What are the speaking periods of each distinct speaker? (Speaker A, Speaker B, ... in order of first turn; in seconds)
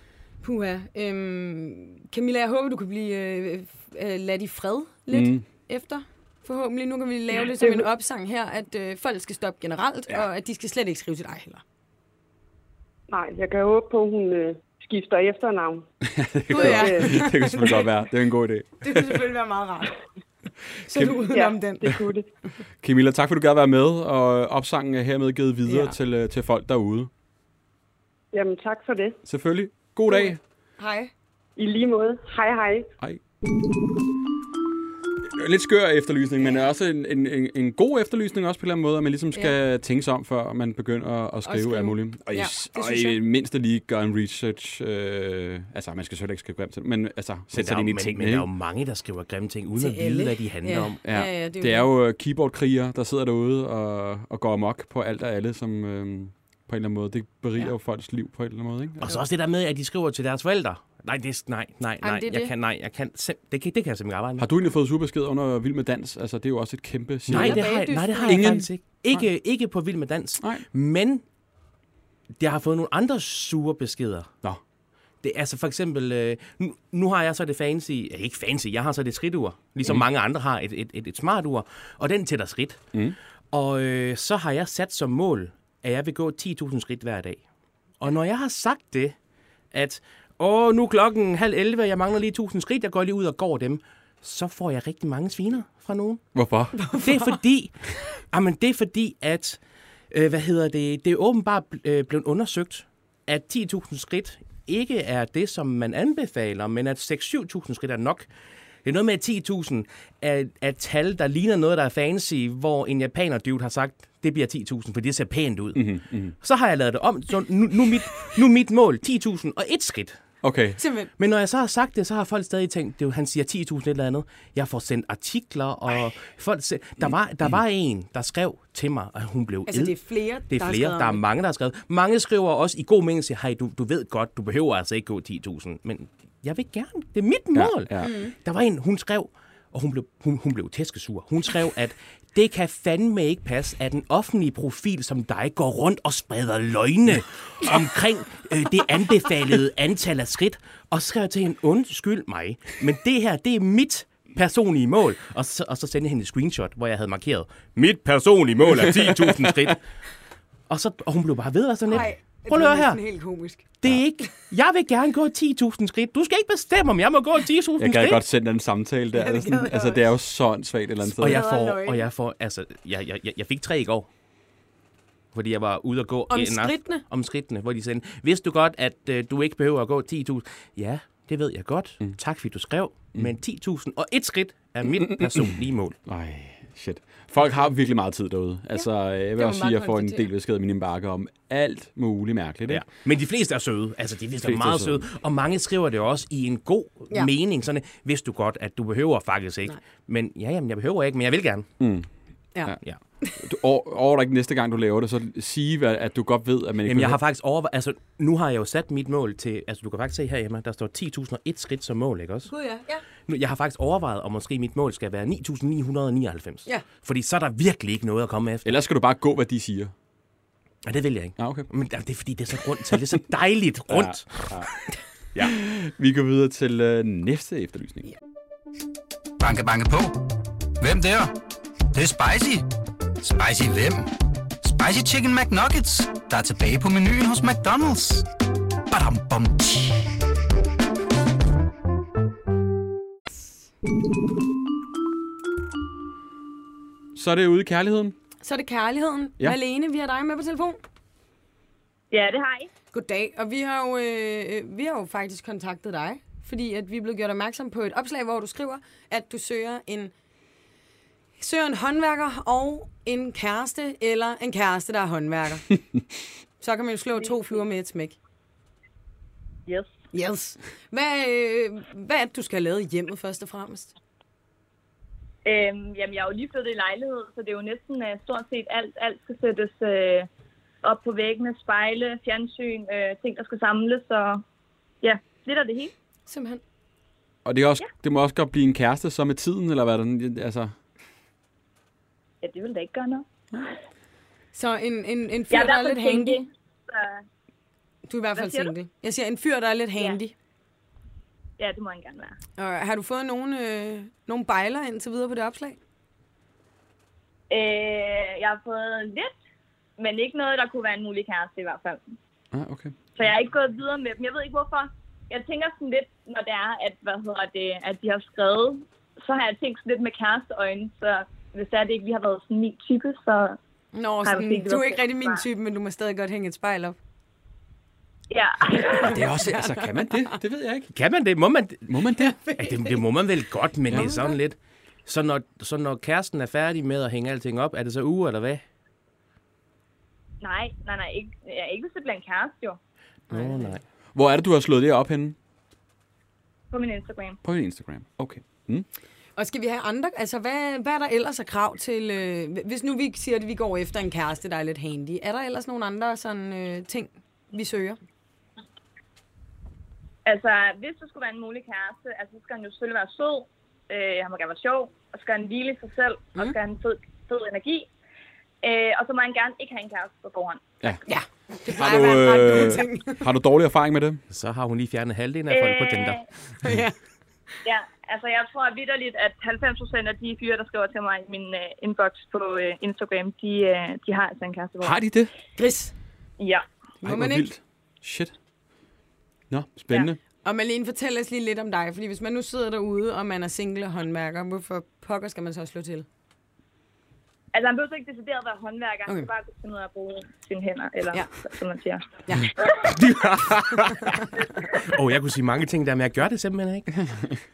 Speaker A: 0.4-11.6, 16.5-17.9, 18.8-19.9, 20.8-21.9, 25.6-26.0, 30.1-31.1, 41.5-43.2, 49.8-51.9, 62.0-62.5, 67.3-68.6, 96.8-97.4, 120.8-121.1, 129.7-131.2, 138.0-138.3, 161.9-163.7, 169.1-170.1, 171.1-172.1, 176.3-177.0, 188.7-190.3, 202.6-203.4, 212.5-213.0, 248.4-250.8, 252.9-260.1, 261.4-265.8, 266.6-268.2, 270.1-273.9, 286.3-286.6, 294.5-296.4, 298.1-300.3, 302.6-305.8, 323.9-327.0, 328.9-330.4, 332.2-333.0, 333.9-334.4, 343.3-343.7, 349.4-358.0, 371.1-373.2, 376.6-377.0, 385.6-385.9, 387.0-387.5, 390.4-396.1, 402.3-402.5
Speaker B: 5.1-5.5, 16.0-19.3, 20.9-21.2, 22.8-27.1, 29.3-30.4, 35.4-48.5, 51.0-59.1, 64.4-69.2, 70.4-70.7, 96.3-96.9, 115.8-116.3, 120.4-120.8, 137.6-138.2, 167.8-171.4, 185.0-192.9, 194.4-195.0, 201.8-202.1, 203.4-207.2, 218.7-219.9, 221.4-221.7, 223.9-224.7, 225.4-228.1, 247.2-248.2, 287.4-290.7, 312.5-312.9, 329.0-330.9, 331.9-332.4, 344.1-345.4, 347.4-348.9, 371.7-374.2, 384.8-385.3, 387.1-388.4, 389.5-390.2
Speaker C: 13.1-15.9, 16.5-17.3, 21.3-22.3, 28.3-29.2, 31.6-32.9
Speaker D: 47.5-51.0, 59.0-64.5, 67.3-71.2, 72.4-74.4, 75.2-82.9, 83.5-87.4, 88.0-89.2, 89.7-96.3, 96.9-108.3, 108.8-120.2, 121.2-159.8, 160.7-163.0, 163.8-168.2, 171.2-174.1, 175.3-186.0, 192.7-201.7, 206.8-212.5, 213.2-218.7, 220.8-224.4, 330.9-332.0, 332.6-338.6, 343.3-343.8, 374.3-376.2, 402.9-407.0
Speaker E: 229.4-230.2, 230.8-231.3, 231.9-232.7, 233.2-238.2, 238.9-240.1
Speaker F: 252.1-252.7, 275.4-280.3, 280.8-284.4, 285.0-285.9, 292.4-293.3, 295.5-297.2, 298.4-298.7, 301.6-302.4, 307.5-309.3, 310.0-312.1, 313.2-323.6, 324.2-325.4, 328.3-329.2, 340.4-342.8, 346.7-347.4, 360.3-367.9, 368.6-370.7, 375.5-376.2, 377.6-385.0, 386.4-386.7, 397.5-402.9